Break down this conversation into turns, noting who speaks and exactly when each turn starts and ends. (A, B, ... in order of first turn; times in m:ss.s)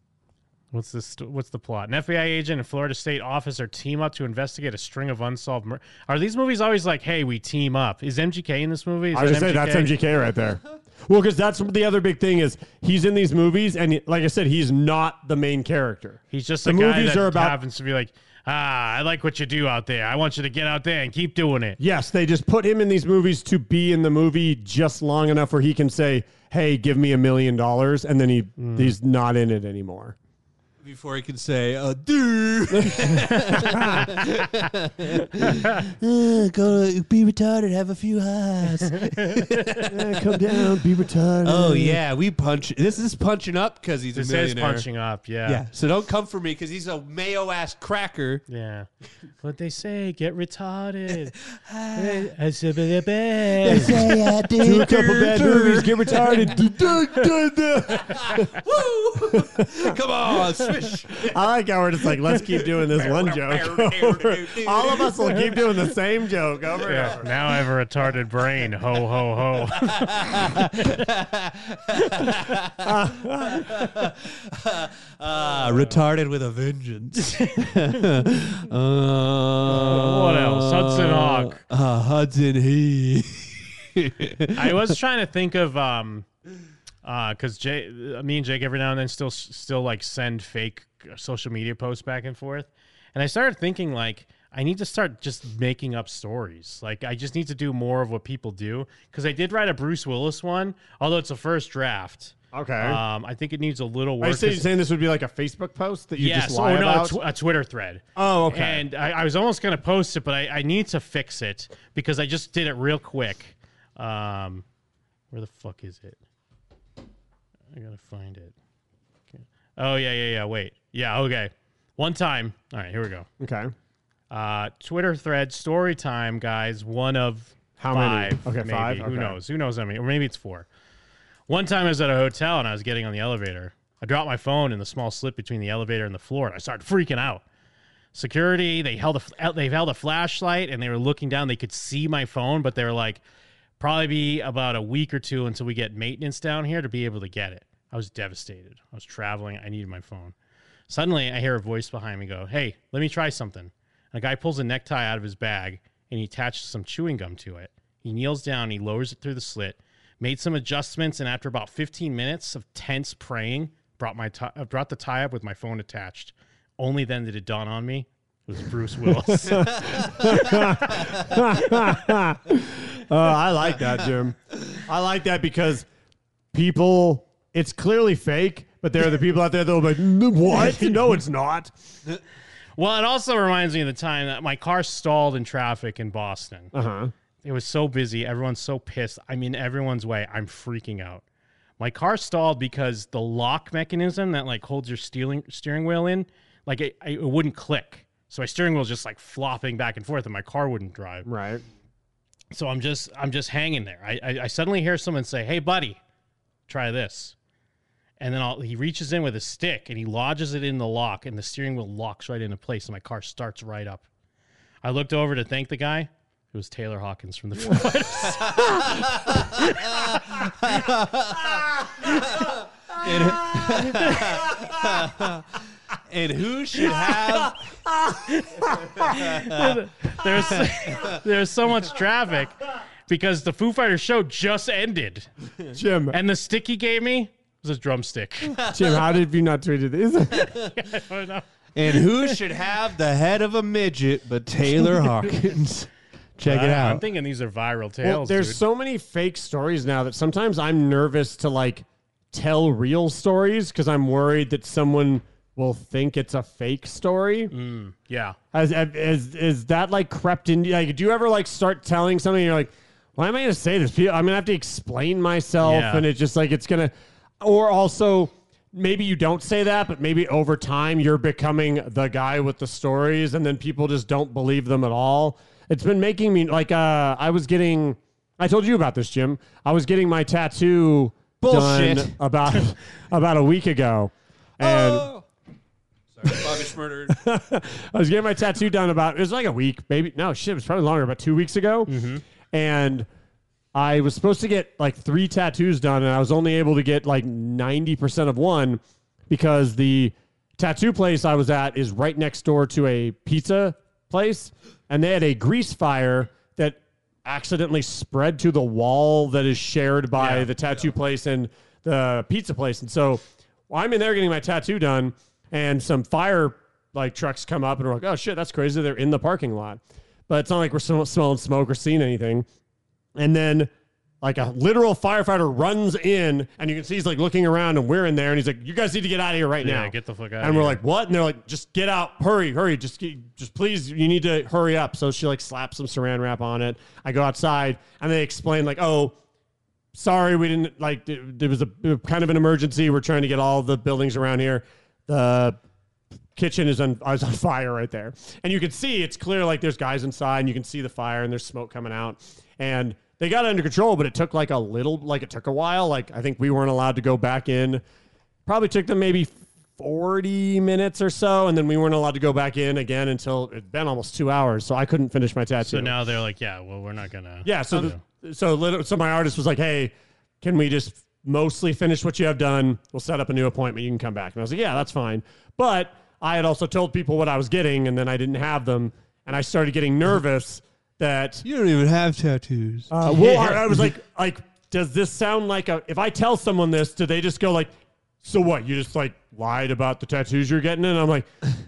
0:00.7-0:09.9 A
0:09.1-0:17.6 B
0:16.3-0:21.8 A
0:21.8-0:30.2 B
0:28.6-0:29.0 A
0:30.8-0:40.8 C
0:32.7-0:34.1 B
0:38.9-0:39.7 A
0:39.9-0:42.0 B
0:41.4-0:44.9 C
0:44.2-0:45.6 A
0:45.5-0:48.4 C
0:48.5-0:48.9 A
0:49.4-0:51.4 A
0:51.5-0:52.3 C
0:52.0-0:54.0 A
0:53.6-0:56.6 C
0:54.6-0:58.5 B
0:58.0-1:01.4 C
0:59.3-1:00.0 B
1:01.2-1:07.4 B
1:02.1-1:05.5 C
1:06.9-1:10.9 A
1:10.0-1:12.9 C
1:12.8-1:13.9 B
1:13.6-1:24.9 C
1:15.7-1:15.9 B
1:19.7-1:21.6 A
1:24.6-1:26.3 A
1:27.0-1:44.7 A
1:42.5-1:43.0 B
1:44.2-1:47.2 B
1:46.2-1:54.6 A
1:48.2-1:48.8 B
1:55.3-1:56.2 A
1:57.7-1:58.5 A
1:59.3-2:03.3 A
2:03.4-2:03.7 B
2:04.3-2:10.7 A
2:07.8-2:09.4 B
2:11.5-2:17.4 A
2:18.1-2:23.2 A
2:23.8-2:30.3 A
2:30.9-2:50.6 A
2:49.3-2:55.9 B
2:49.8-2:50.1 C
2:56.5-3:01.7 B
3:00.5-3:01.0 A
3:02.8-3:06.7 A
3:06.7-3:07.1 B
3:07.4-3:11.2 A
3:11.8-3:21.3 A
3:21.2-3:21.6 B
3:22.5-3:26.0 A
3:26.7-3:27.4 A
3:28.2-3:34.1 A
3:34.8-3:39.0 A
3:38.6-3:45.5 C
3:39.6-3:40.5 A
3:46.1-3:47.6 C
3:47.1-3:49.0 B
3:48.7-3:51.2 C
3:49.4-3:52.6 A
3:53.1-3:55.3 A
3:55.7-3:56.2 B
3:56.1-3:58.6 A
3:58.6-3:59.0 C
3:58.7-4:00.5 B
4:00.7-4:02.3 A
4:01.8-4:07.0 C
4:06.4-4:08.6 A
4:08.0-4:17.5 B
4:17.5-4:18.4 A
4:18.5-4:45.1 B
4:25.6-4:26.1 A
4:41.4-4:42.2 C
4:44.6-4:45.2 C
4:46.2-4:47.2 C
4:46.3-4:46.5 B
4:47.1-4:51.9 B
4:51.9-4:52.2 A
4:52.5-4:53.1 B
4:53.7-5:22.5 B
5:10.2-5:10.5 A
5:23.2-5:23.7 B
5:24.2-5:39.2 B
5:29.6-5:30.8 A
5:39.9-5:45.6 B
5:46.4-5:57.8 B
5:58.5-6:06.0 B
6:05.6-6:08.0 A
6:07.4-6:21.4 B
6:21.4-6:23.9 C
6:22.9-6:31.3 B